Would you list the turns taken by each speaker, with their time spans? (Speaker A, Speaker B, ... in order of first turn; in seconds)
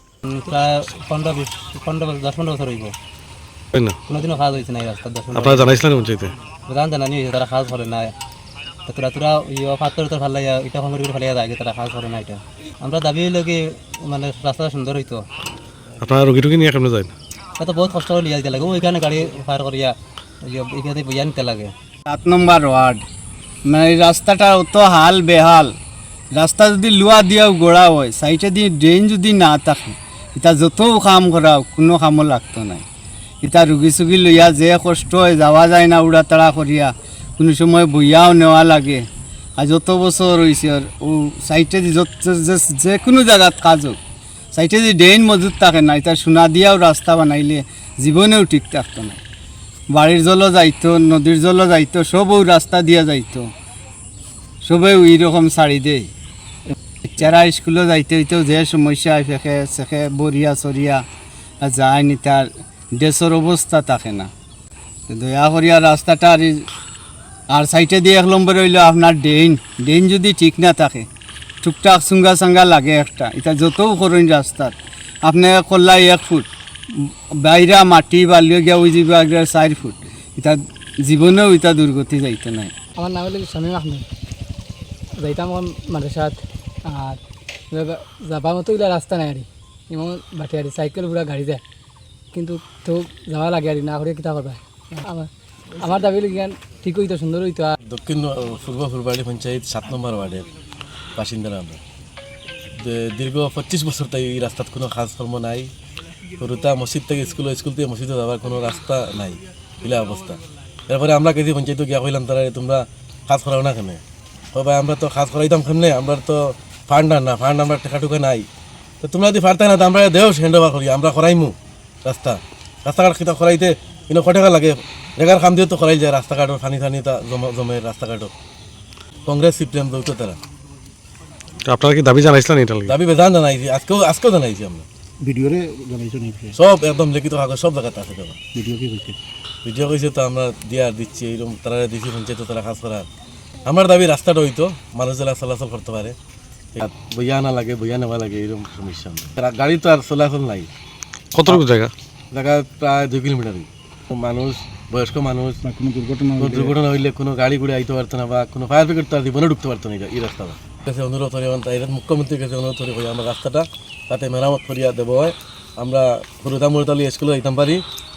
Speaker A: 0.2-2.9, 4.1-5.9, 6.7-8.1, 8.8-15.2, 17.6-21.7
Speaker B: 3.7-4.0, 5.3-6.3, 16.0-17.1, 131.7-132.9, 151.3-151.9
Speaker C: 22.1-23.0, 23.6-25.7, 26.3-32.8, 33.4-44.0, 44.5-49.2, 49.9-53.5, 54.6-56.1, 57.0-61.0, 61.6-64.3, 65.1-66.6, 67.5-71.1, 71.6-82.7
Speaker D: 83.0-84.0, 85.2-86.4, 86.9-87.2, 87.7-91.6, 92.3-95.3, 95.8-97.7
Speaker E: 97.8-100.5, 101.2-101.8, 102.8-105.7, 106.4-114.0, 114.5-118.5, 119.0-128.3, 129.2-130.4, 132.8-134.8, 136.5-138.4, 139.6-143.1, 143.7-146.2, 146.8-150.7, 152.3-155.6, 156.4-167.8
Speaker F: 135.2-136.5, 138.6-139.2, 155.7-156.6